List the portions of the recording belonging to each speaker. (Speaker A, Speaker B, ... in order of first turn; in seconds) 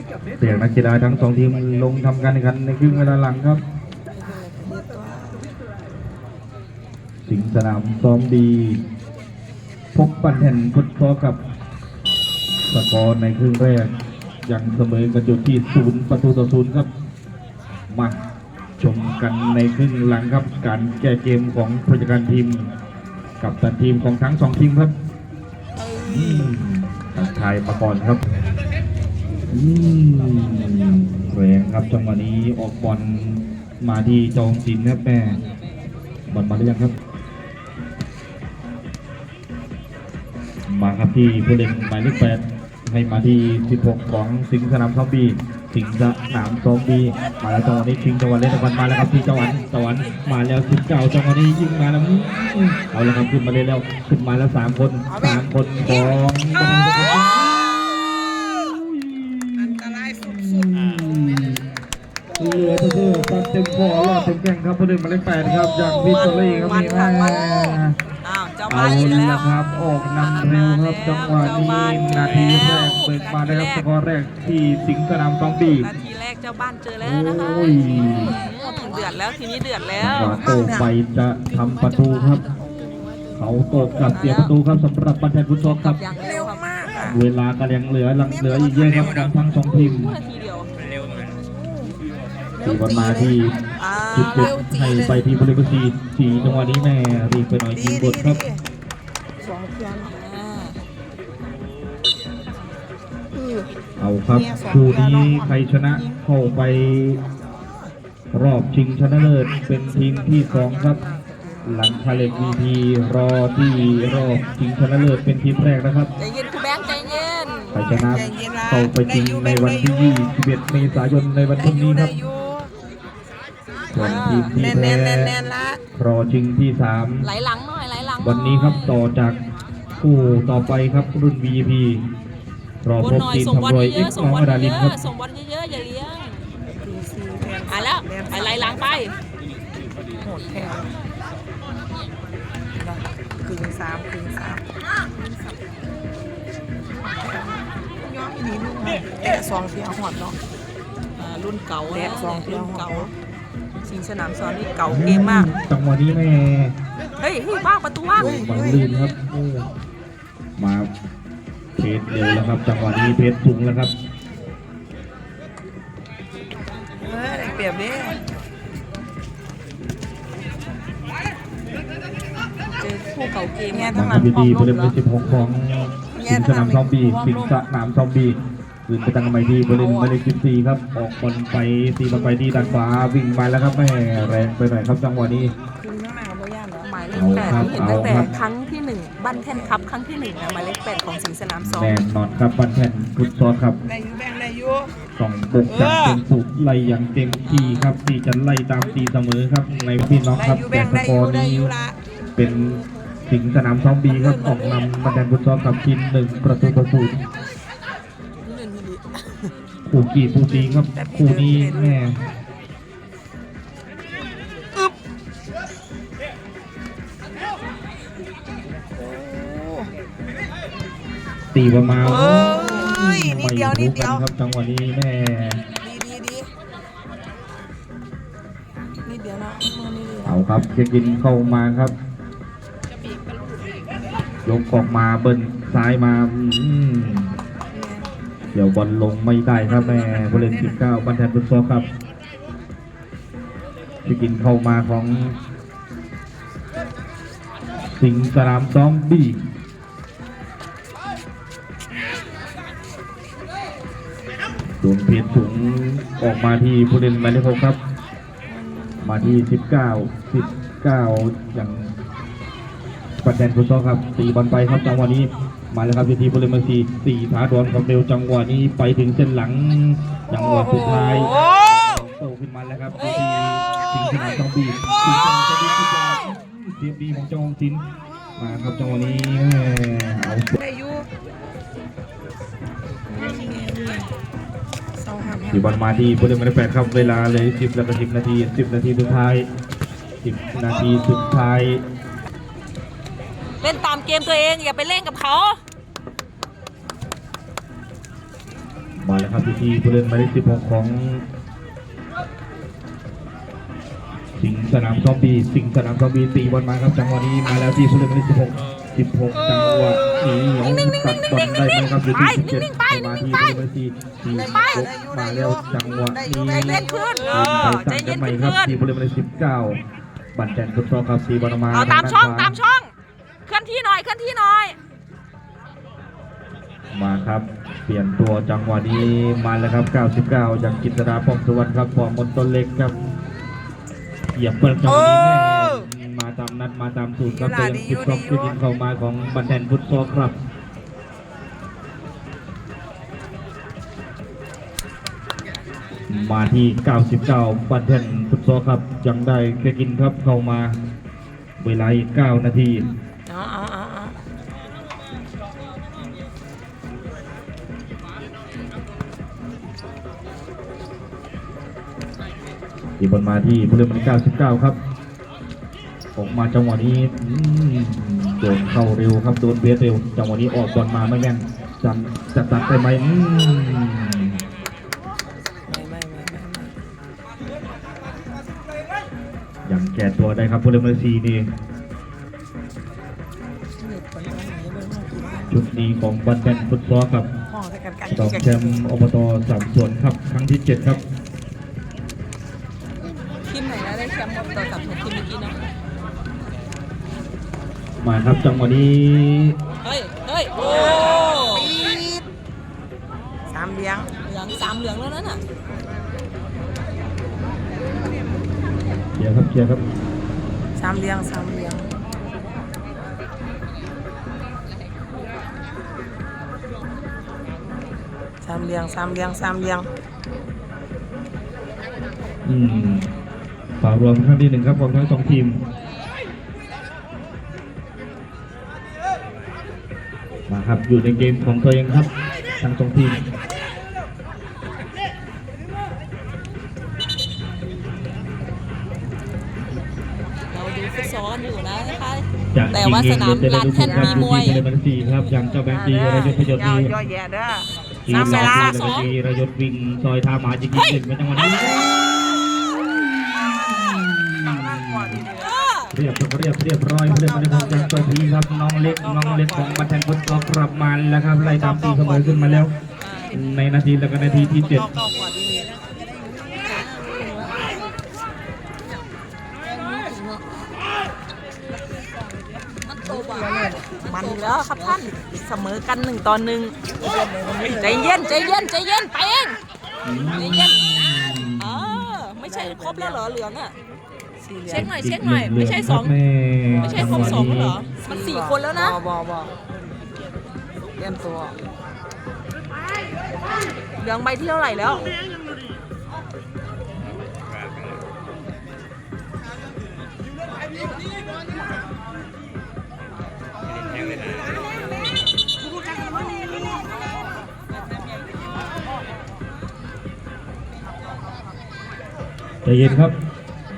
Speaker A: 0.4-3.6, 7.2-8.8, 9.9-11.4, 12.7-13.9, 14.4-16.9, 17.9-18.2, 18.8-22.7, 23.4-24.9, 26.0-28.2, 29.5-35.4, 36.3-36.9, 40.7-57.6, 58.6-61.6, 62.4-68.0, 68.7-75.9, 77.0-78.3, 80.0-82.4, 83.3-86.0, 87.0-90.1, 92.6-93.5, 94.1-98.4, 104.0-107.2, 108.3-111.0, 111.6-116.1, 117.7-122.1, 123.9-125.3, 126.0-127.3, 128.2-129.4, 130.0-132.0, 132.8-134.9, 154.9-156.7, 158.2-159.7, 160.6-160.9, 161.8-163.9, 173.9-178.3, 178.9-185.5, 187.1-188.3, 191.6-193.8, 195.2-201.7, 202.3-207.2, 209.9-212.2, 221.5-225.6, 230.2-231.9, 234.4-237.3, 238.5-241.8, 244.0-245.3, 247.9-249.4, 254.8-257.8, 259.0-261.9, 263.2-277.8, 278.4-280.6, 285.5-289.4, 290.2-291.8, 299.0-301.2, 304.4-319.8, 320.3-322.6, 326.9-332.9, 334.4-340.3, 346.1-350.7, 351.6-352.9, 363.0-364.8, 366.1-374.3, 379.7-381.4, 385.5-387.3, 388.1-391.0, 398.0-399.6, 409.1-409.8, 422.4-423.1, 423.8-425.6, 430.5-433.2, 442.5-446.9, 448.1-451.9, 453.0-455.2, 455.9-462.7, 463.3-464.9, 480.0-482.1, 484.7-487.8, 512.6-513.1
Speaker B: 4.1-5.5, 25.8-26.5, 55.1-55.5, 59.6-60.7, 65.6-67.1, 78.0-78.5, 80.4-80.9, 86.2-87.2, 88.2-88.9, 91.3-91.9, 92.6-93.3, 94.2-95.2, 97.7-98.6, 99.4-100.2, 103.3-103.7, 104.3-106.2, 110.1-111.9, 117.9-120.0, 121.5-122.7, 124.5-125.8, 136.8-139.0, 140.2-140.9, 142.8-144.6, 146.9-150.4, 151.9-153.1, 158.2-158.8, 167.0-168.2, 173.7-174.9, 176.1-177.6, 179.7-180.2, 182.1-182.8, 185.8-188.3, 189.4-189.9, 193.8-194.9, 195.7-196.2, 200.3-202.8, 204.1-204.8, 208.4-209.4, 210.5-212.0, 219.0-219.9, 222.0-224.3, 225.8-226.5, 229.0-230.4, 237.7-238.1, 239.6-240.8, 258.5-259.4, 270.6-271.4, 280.6-281.1, 283.1-284.1, 285.0-285.8, 314.3-317.6, 334.8-335.9, 337.3-338.6, 353.2-354.2, 375.7-376.7, 383.8-385.6, 387.5-388.8, 401.5-402.2, 403.5-404.1, 410.8-411.9, 418.4-419.9, 443.7-444.3, 445.7-448.7, 454.4-455.5, 457.1-458.1, 458.9-459.9, 461.4-462.7, 464.1-465.9, 469.9-470.4, 473.0-475.1, 477.0-478.3, 482.4-483.2, 484.4-484.9, 486.7-489.5, 491.0-491.6
Speaker C: 66.1-67.7, 68.2-69.5, 70.2-73.8, 75.8-80.5, 84.1-84.5, 85.6-86.6, 89.7-90.7, 93.8-94.5, 100.0-100.8, 116.2-117.7, 124.0-124.6, 127.2-128.9, 133.0-136.4, 137.7-139.1, 151.2-153.1, 153.8-155.5, 157.2-158.3, 172.6-173.9, 186.8-192.0, 197.5-197.9, 293.6-295.6, 312.1-313.2, 314.4-314.9, 316.5-318.8, 321.7-322.9, 323.5-324.8, 393.5-395.6, 399.8-401.7, 404.2-405.4, 440.5-444.6, 448.1-449.1, 455.4-455.9, 463.0-463.4, 466.7-467.6, 473.0-476.7, 477.6-479.6, 480.3-483.7, 484.7-486.1, 486.8-489.0, 494.0-495.1